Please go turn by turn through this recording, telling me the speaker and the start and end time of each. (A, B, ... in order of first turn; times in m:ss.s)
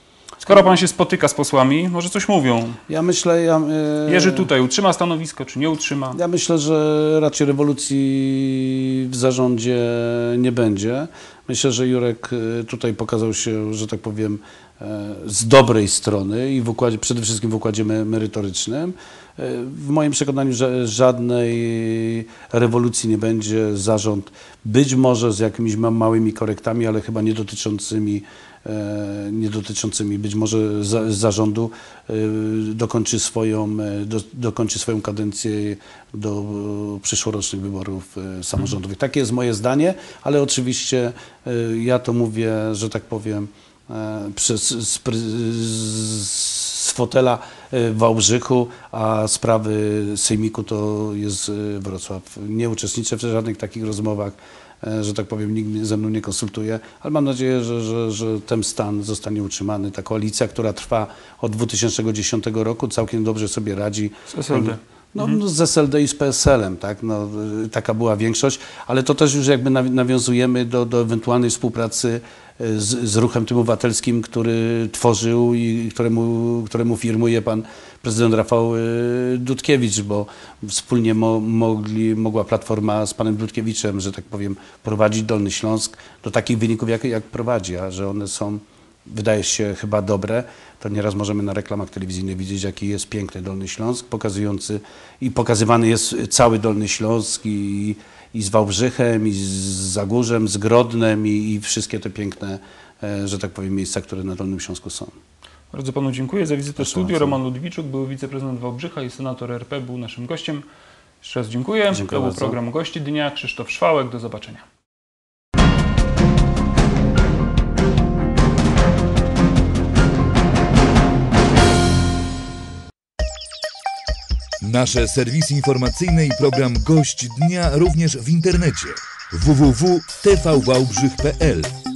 0:00.4-0:02.8 A
0:02.9-0:04.5 B
0:04.1-0:06.2 A
0:06.1-1:45.1 B
1:04.3-1:05.4 A
1:45.7-1:50.6 A
1:46.8-1:47.4 B
1:51.2-1:54.6 A
1:51.9-1:52.6 B
2:04.6-2:11.7 C